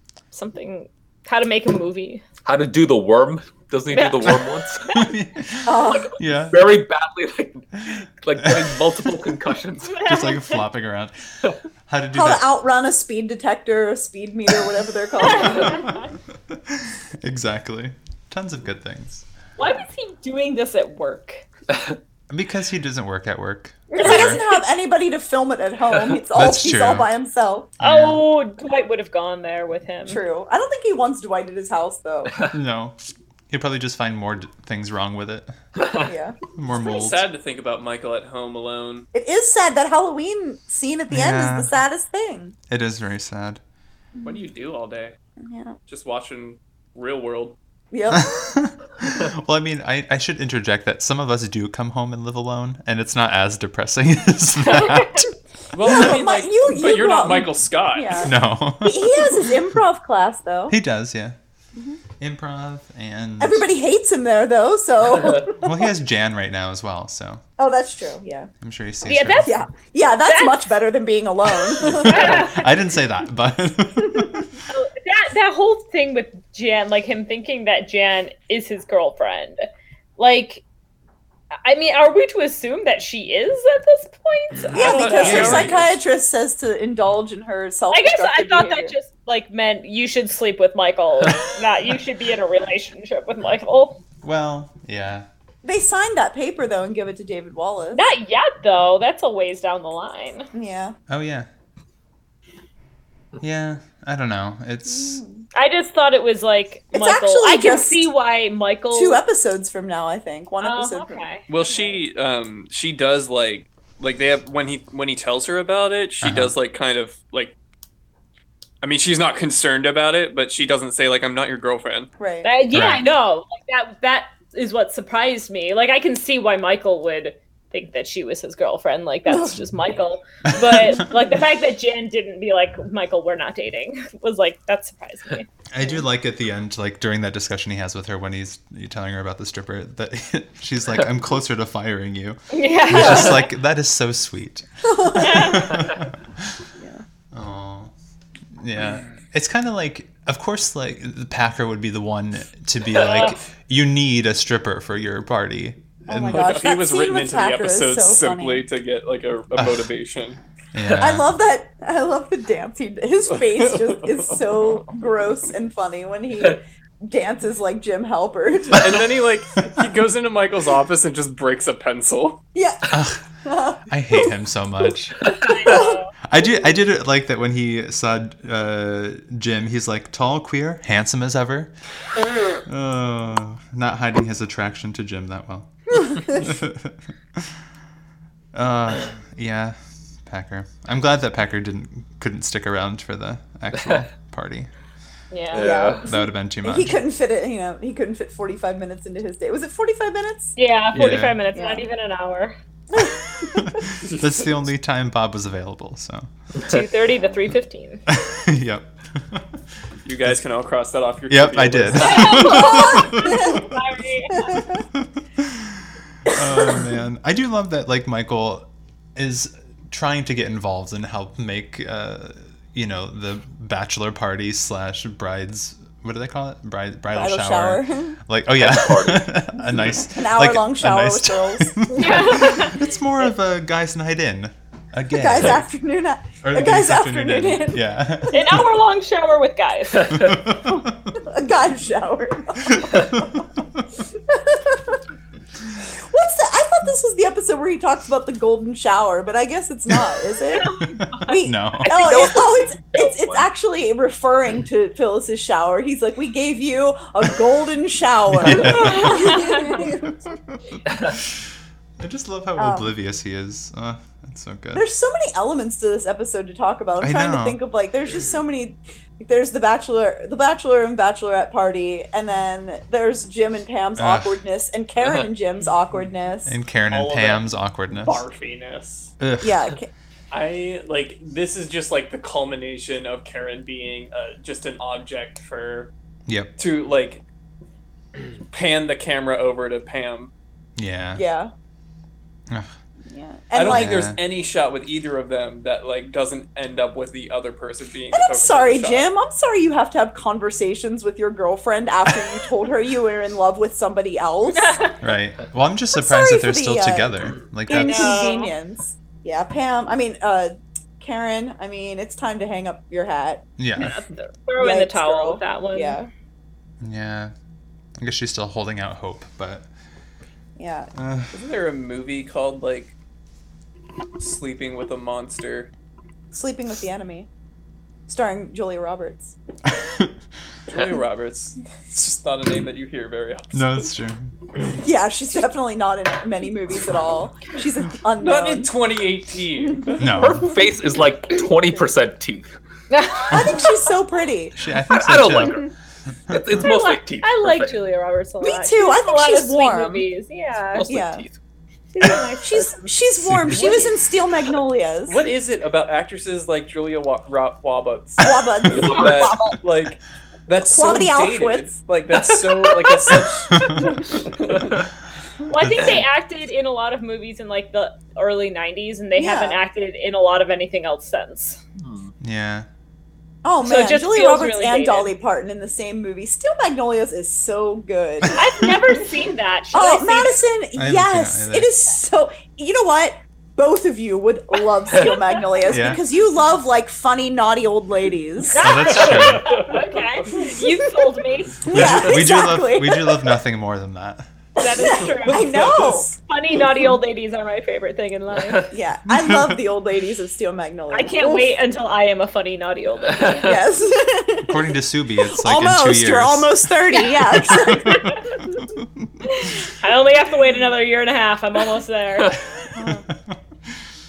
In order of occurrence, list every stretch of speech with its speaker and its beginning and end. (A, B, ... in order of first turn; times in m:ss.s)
0:00.3-0:02.2 A
0:02.4-0:04.9 B
0:03.9-0:05.1 A
0:04.9-0:06.8 C
0:05.6-0:06.1 D
0:05.9-0:10.0 B
0:08.0-0:08.8 C
0:09.9-0:10.6 A
0:10.0-0:11.1 C
0:11.9-0:12.5 C
0:12.1-0:15.9 D
0:15.2-0:16.1 A
0:16.5-0:19.2 C
0:19.6-0:21.4 A
0:22.3-0:24.4 C
0:23.9-0:24.5 A
0:24.0-0:27.7 D
0:26.3-0:27.1 C
0:27.8-0:28.2 C
0:27.8-0:30.2 A
0:30.1-0:32.3 D
0:32.5-0:33.0 C
0:33.5-0:35.5 C
0:35.8-0:36.1 B
0:36.0-0:36.4 D
0:36.5-0:37.2 C
0:36.8-0:39.1 E
0:39.1-0:42.5 D
0:41.1-0:41.7 C
0:42.7-0:43.6 C
0:44.2-0:45.2 E
0:45.4-0:45.8 D
0:45.9-0:47.6 E
0:47.9-0:48.3 D
0:48.1-0:55.3 C
0:54.7-0:55.2 A
0:55.7-0:58.2 E
0:55.8-1:00.8 D
0:58.2-0:59.4 C
1:00.7-1:01.4 C
1:02.2-1:03.7 C
1:03.4-1:05.9 D
1:05.6-1:07.4 C
1:07.6-1:08.5 D
1:08.6-1:09.5 C
1:09.0-1:09.6 A
1:09.4-1:12.5 D
1:10.2-1:10.6 A
1:11.8-1:12.7 A
1:11.8-1:14.6 C
1:14.0-1:14.4 D
1:14.7-1:19.6 A
1:20.2-1:20.6 A
1:21.6-1:25.7 A
1:24.7-1:28.9 D
1:24.7-1:25.9 E
1:25.2-1:25.8 C
1:27.9-1:34.0 A
1:34.2-1:35.3 C
1:35.6-1:38.1 D
1:37.9-1:40.5 A
1:40.5-1:41.0 D
1:41.1-1:41.5 C
1:43.4-1:45.2 C
1:44.9-1:45.4 D
1:45.5-1:49.2 A
1:46.9-1:48.1 D
1:48.9-1:51.2 D
1:50.6-1:51.8 A
1:51.5-1:57.5 E
1:56.2-1:56.5 C
1:58.8-2:02.1 E
2:02.2-2:02.5 D
2:02.4-2:15.5 A
2:02.7-2:03.0 C
2:09.2-2:09.7 D
2:10.5-2:11.1 C
2:15.7-2:26.6 C
2:22.5-2:23.5 A
2:24.8-2:25.7 D
2:25.1-2:26.0 A
2:26.8-2:27.0 D
2:27.3-2:27.9 C
2:28.6-2:36.6 C
2:32.9-2:33.4 A
2:36.1-2:38.6 D
2:36.3-2:40.4 E
2:39.6-2:39.9 C
2:40.7-2:41.3 C
2:41.0-2:49.0 D
2:43.4-2:44.2 E
2:48.7-2:52.4 E
2:52.5-2:52.9 D
2:52.9-2:53.2 C
2:53.4-2:54.3 D
2:53.9-2:55.2 C
2:55.2-2:55.5 B
2:55.4-2:56.1 A
2:55.6-2:56.0 D
2:56.2-3:01.7 C
3:02.6-3:07.6 C
3:06.0-3:06.3 D
3:08.5-3:14.7 C
3:15.3-3:16.0 A
3:15.5-3:16.0 B
3:15.5-3:20.5 D
3:16.1-3:17.0 C
3:20.6-3:22.6 A
3:20.9-3:21.4 C
3:21.5-3:21.8 D
3:22.9-3:23.8 D
3:23.3-3:26.3 C
3:26.6-3:28.0 A
3:28.1-3:29.5 C
3:30.0-3:32.6 E
3:31.3-3:33.8 C
3:32.0-3:34.7 A
3:33.0-3:33.5 D
3:34.5-3:34.8 D
3:34.9-3:55.6 C
3:47.1-3:48.2 D
3:48.6-3:49.3 B
3:50.1-3:52.2 D
3:51.9-3:52.9 A
3:55.1-3:58.5 D
3:56.4-3:58.7 C
3:58.3-4:00.4 A
4:00.1-4:01.2 C
4:01.2-4:03.4 D
4:02.6-4:03.8 C
4:04.3-4:05.0 D
4:05.8-4:20.2 D
4:10.5-4:12.2 A
4:10.8-4:12.0 C
4:11.9-4:13.5 B
4:18.3-4:21.4 C
4:18.5-4:19.9 A
4:22.0-4:24.8 C
4:22.6-4:22.9 D
4:24.7-4:36.6 D
4:27.0-4:27.6 C
4:34.0-4:34.4 C
4:36.4-4:38.2 C
4:36.9-4:39.1 E
4:39.2-4:39.6 C
4:39.4-4:39.9 D
4:40.3-4:45.9 E
4:46.6-4:47.2 E
4:48.5-4:50.3 E
4:50.8-4:51.2 C
4:51.1-4:51.5 D
4:53.1-4:54.1 D
4:53.5-4:59.1 E
4:53.6-4:54.2 C
4:58.1-5:04.8 D
5:04.5-5:05.0 A
5:05.0-5:08.2 C
5:05.9-5:07.1 D
5:07.7-5:13.4 D
5:07.7-5:08.5 A
5:13.6-5:14.0 C
5:13.8-5:16.0 A
5:14.6-5:16.1 D
5:16.8-5:17.3 C
5:18.0-5:19.7 C
5:20.6-5:20.9 D
5:20.9-5:21.3 C
5:21.3-5:22.9 E
5:24.2-5:25.7 E
5:26.3-5:27.3 D
5:28.1-5:29.4 D
5:29.8-5:30.1 C
5:30.7-5:33.9 E
5:33.5-5:34.3 C
5:34.8-5:38.7 D
5:38.2-5:40.0 E
5:40.0-5:40.5 C
5:40.0-5:42.5 B
5:42.9-5:43.8 A
5:43.3-5:44.6 D
5:44.6-5:45.6 C
5:44.9-5:45.7 B
5:46.3-5:46.6 C
5:46.3-5:47.8 B
5:46.6-5:50.9 A
5:48.4-5:50.1 D
5:50.7-5:51.4 B
5:50.8-5:51.2 D
5:51.9-5:53.9 A
5:52.4-5:55.2 D
5:53.2-5:53.6 C
5:55.1-6:04.8 E
5:58.2-5:59.6 D
5:58.7-5:59.2 B
6:00.6-6:01.8 D
6:02.9-6:03.2 D
6:03.5-6:03.9 C
6:04.5-6:04.8 B
6:05.5-6:11.6 A
6:05.6-6:06.0 C
6:09.2-6:09.6 D
6:11.8-6:12.1 B
6:12.2-6:12.7 C
6:13.4-6:18.4 D
6:13.6-6:15.1 A
6:18.3-6:20.4 A
6:18.4-6:18.7 C
6:19.7-6:28.8 D
6:20.8-6:21.7 C
6:25.7-6:26.0 C
6:28.5-6:32.1 A
6:28.6-6:29.5 C
6:30.4-6:30.9 D
6:31.6-6:34.3 C
6:31.7-6:33.4 D
6:34.6-6:38.7 A
6:34.6-6:36.1 D
6:35.5-6:36.0 E
6:38.7-6:41.5 D
6:39.1-6:39.6 C
6:40.9-6:43.6 A
6:43.4-6:44.6 D
6:44.4-6:46.6 C
6:45.3-6:48.1 D
6:47.6-6:48.4 A
6:47.6-6:49.1 C
6:49.3-6:52.4 A
6:52.7-6:53.4 C
6:52.8-6:53.0 D